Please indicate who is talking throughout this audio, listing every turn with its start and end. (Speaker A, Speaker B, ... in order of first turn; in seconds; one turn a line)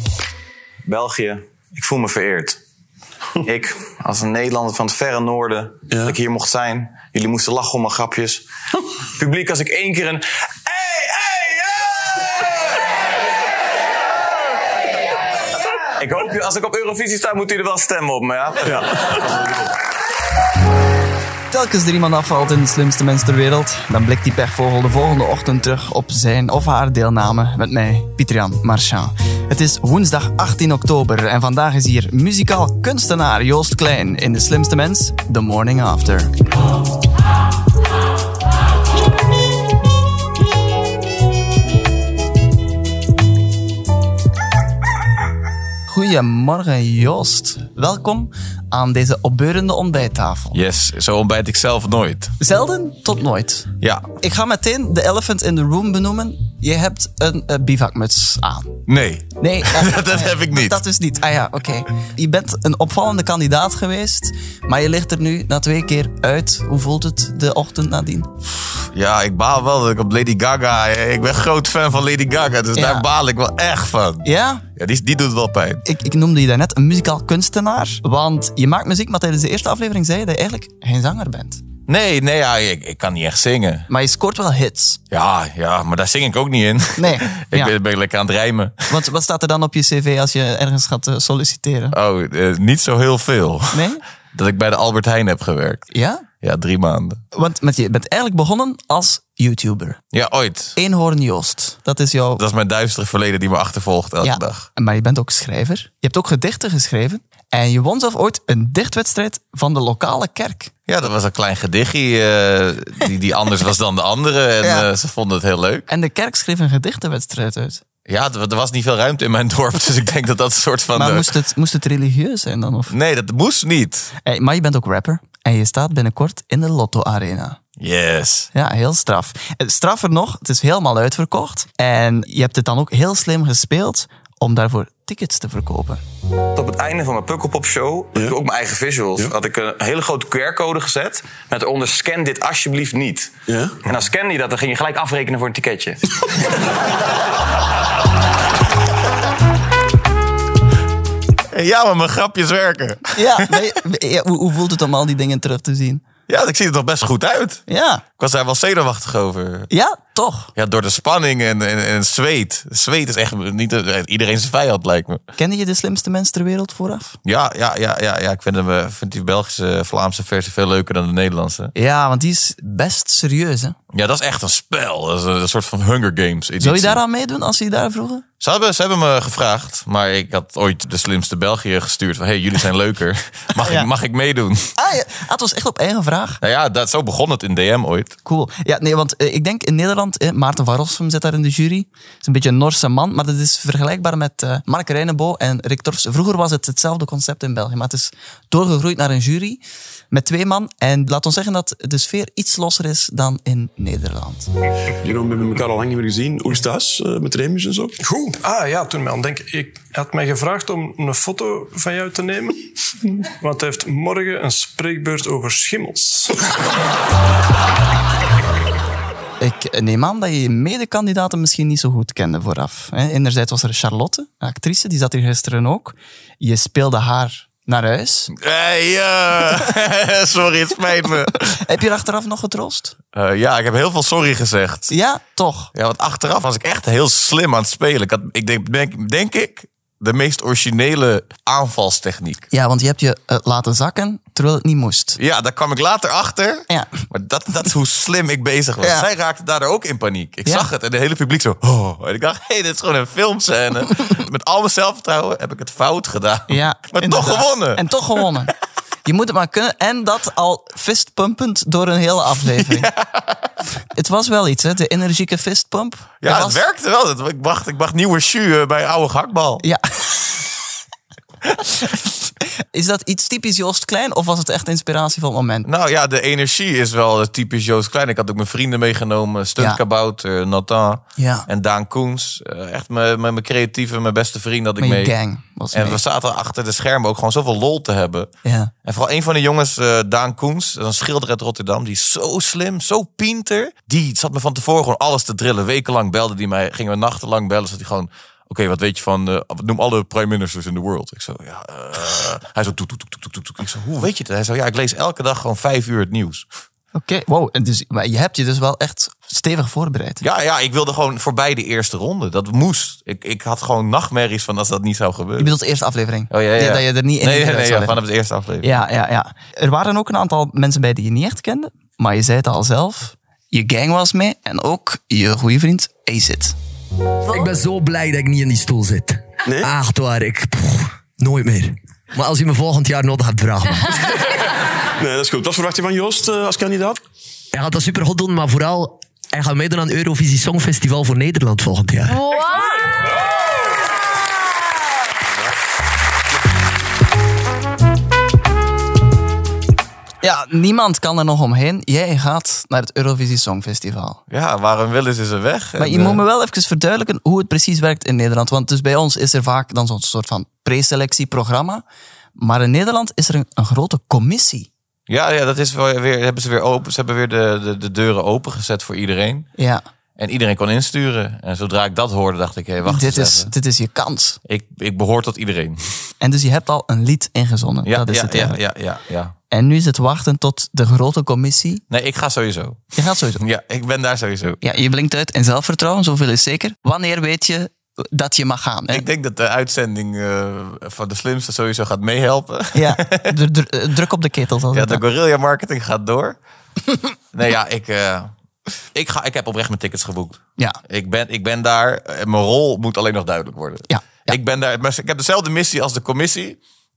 Speaker A: 0.8-2.6
Speaker A: 3.4-8.4
Speaker B: 5.9-6.2
Speaker A: 9.2-12.3
Speaker A: 16.0-19.3
Speaker C: 21.5-36.3
Speaker C: 45.9-50.6
Speaker D: 50.5-52.4
Speaker C: 52.4-58.7
Speaker D: 53.8-54.1
Speaker D: 58.9-60.8
Speaker C: 59.4-68.3
Speaker D: 68.5-75.8
Speaker C: 72.7-73.0
Speaker C: 74.2-74.6
Speaker C: 75.8-81.6
Speaker D: 81.9-83.9
Speaker C: 83.9-85.0
Speaker D: 85.1-89.0
Speaker C: 87.0-87.7
Speaker C: 88.9-92.0
Speaker D: 91.9-95.9
Speaker C: 93.7-94.0
Speaker C: 95.9-96.2
Speaker D: 96.4-97.2
Speaker C: 97.3-100.0
Speaker D: 100.1-100.8
Speaker C: 100.8-102.4
Speaker D: 102.4-104.7
Speaker C: 104.2-110.7
Speaker D: 110.9-115.9
Speaker C: 114.6-114.9
Speaker C: 115.9-117.8
Speaker D: 118.1-121.3
Speaker C: 120.9-122.9
Speaker D: 122.9-124.1
Speaker C: 124.2-127.6
Speaker D: 127.8-128.5
Speaker C: 128.5-136.0
Speaker A: 136.6-143.3
Speaker B: 143.5-143.8
Speaker A: 143.8-146.0
Speaker D: 151.5-153.6
Speaker C: 153.1-156.0
Speaker D: 156.3-157.6
Speaker C: 157.7-158.0
Speaker D: 158.2-159.7
Speaker C: 159.7-160.5
Speaker D: 160.6-165.2
Speaker C: 165.3-167.2
Speaker D: 167.2-171.7
Speaker C: 171.7-173.8
Speaker D: 173.9-177.0
Speaker C: 176.6-178.2
Speaker D: 178.4-184.7
Speaker C: 183.6-183.9
Speaker C: 184.8-186.4
Speaker D: 186.4-188.2
Speaker C: 188.2-204.5
Speaker B: 205.0-207.9
Speaker E: 208.0-216.5
Speaker C: 219.4-228.3
Speaker D: 228.3-231.6
Speaker C: 231.3-232.9
Speaker D: 233.1-234.9
Speaker C: 234.9-235.7
Speaker D: 235.7-242.5
Speaker C: 242.5-245.2
Speaker D: 245.2-257.8
Speaker C: 246.7-247.0
Speaker C: 248.8-249.1
Speaker C: 256.5-258.5
Speaker C: 259.0-262.9
Speaker D: 262.7-263.5
Speaker C: 263.9-266.6
Speaker D: 266.2-269.6
Speaker C: 269.6-270.4
Speaker C: 272.7-275.7
Speaker D: 275.6-285.1
Speaker C: 281.2-281.5
Speaker C: 284.8-286.0
Speaker D: 285.7-288.3
Speaker C: 288.4-288.7
Speaker D: 288.8-306.4
Speaker C: 306.9-310.2
Speaker D: 310.2-315.6
Speaker C: 315.4-318.0
Speaker D: 316.3-318.8
Speaker C: 318.6-326.6
Speaker F: 327.3-334.1
Speaker B: 329.4-329.8
Speaker B: 335.0-337.0
Speaker F: 337.5-342.2
Speaker C: 350.2-354.2
Speaker D: 354.3-356.2
Speaker C: 355.8-361.8
Speaker C: 362.4-364.7
Speaker D: 365.1-369.5
Speaker D: 370.2-373.5
Speaker C: 372.8-374.4
Speaker D: 374.4-376.0
Speaker C: 376.2-378.6
Speaker D: 377.9-379.3
Speaker C: 379.5-381.8
Speaker D: 381.9-382.8
Speaker C: 382.9-383.4
Speaker D: 383.3-384.6
Speaker C: 384.6-389.0
Speaker D: 388.9-393.3
Speaker C: 392.7-395.0
Speaker D: 394.7-396.4
Speaker D: 397.3-398.3
Speaker D: 398.9-406.6
Speaker C: 403.9-404.3